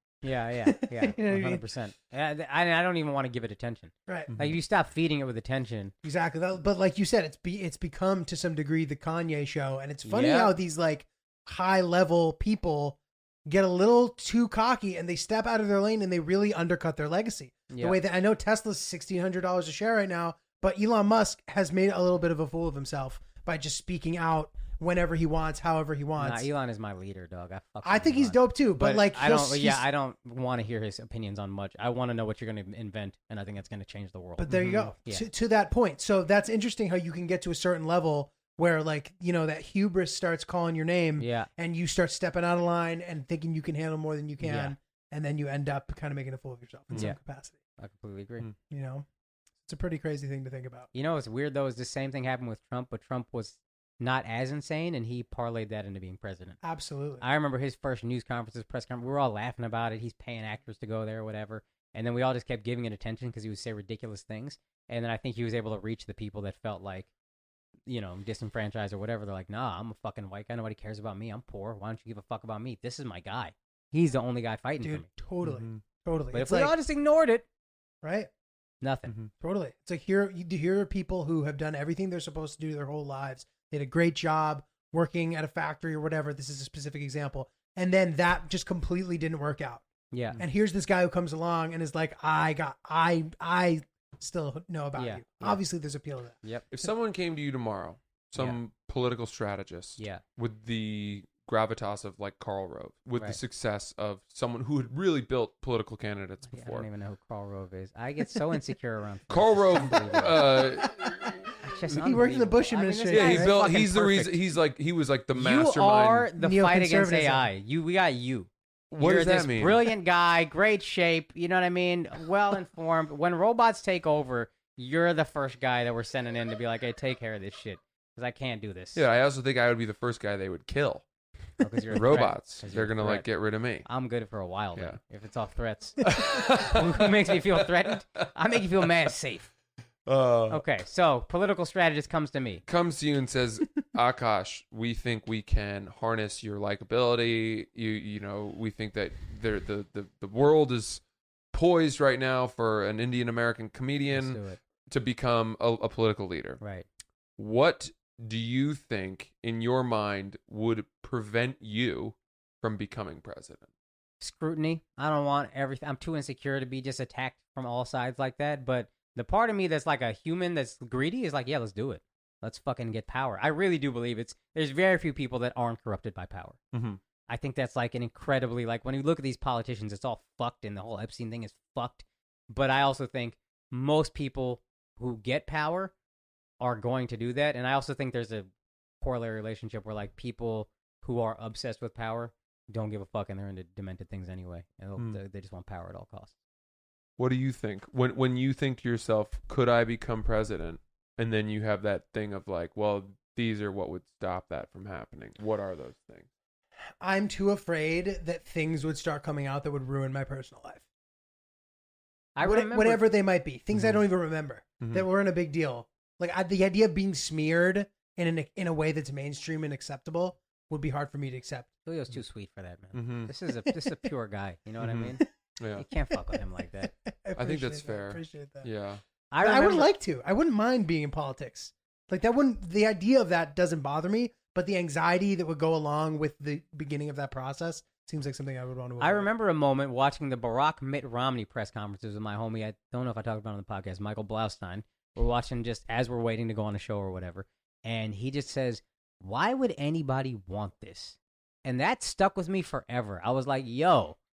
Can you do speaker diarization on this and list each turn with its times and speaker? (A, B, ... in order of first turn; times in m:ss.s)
0:00.2-0:05.9 A
0:00.6-0:01.6 B
0:04.1-0:04.3 B
0:04.3-0:04.6 C
0:06.0-0:26.5 B
0:10.0-0:10.5 A
0:17.7-0:18.0 A
0:26.2-0:35.3 A
0:27.8-0:29.8 B
0:34.4-0:47.6 B
0:41.2-0:41.5 A
0:44.4-0:44.8 A
0:47.8-0:48.5 A
0:48.7-0:49.0 B
0:49.6-0:50.9 B
0:50.9-0:56.6 A
0:56.6-0:57.2 B
0:57.2-1:07.1 A
1:07.9-1:15.1 A
1:14.8-1:16.7 B
1:15.4-1:15.8 C
1:16.3-1:17.4 A
1:18.0-1:18.3 B
1:18.8-1:19.1 A
1:19.4-1:29.8 B
1:30.1-1:30.4 A
1:30.4-1:36.4 B
1:35.0-1:35.6 A
1:36.7-1:46.9 C
1:46.5-1:50.6 A
1:49.3-1:52.1 C
1:50.8-1:51.3 B
1:51.6-1:54.4 A
1:51.9-1:53.5 B
1:53.1-1:56.3 C
1:55.3-2:09.0 A
1:56.4-1:57.5 B
1:58.9-1:59.9 C
2:08.9-2:11.0 C
2:11.6-2:13.2 A
2:11.9-2:13.8 C
2:13.8-2:19.5 A
2:16.0-2:18.2 C
2:18.8-2:19.1 C
2:20.0-2:20.6 C
2:20.5-2:22.6 A
2:22.7-2:31.0 C
2:31.5-2:36.6 C
2:34.1-2:34.6 A
2:36.6-2:36.8 A
2:37.4-2:43.7 C
2:44.2-2:56.6 A
2:56.7-2:57.0 C
2:57.3-3:05.9 A
3:06.6-3:08.5 A
3:09.0-3:16.3 A
3:17.2-3:26.3 C
3:27.0-3:30.8 B
3:32.4-3:33.0 A
3:32.4-3:41.7 B
3:33.7-3:34.0 C
3:34.8-3:35.0 C
3:41.8-3:45.2 A
3:42.9-3:43.3 C
3:43.6-3:44.0 B
3:44.8-3:45.8 C
3:45.8-3:46.9 A
3:46.3-3:48.7 B
3:47.4-3:49.0 C
3:49.3-3:49.9 A
3:49.4-3:59.3 B
3:59.0-4:14.2 A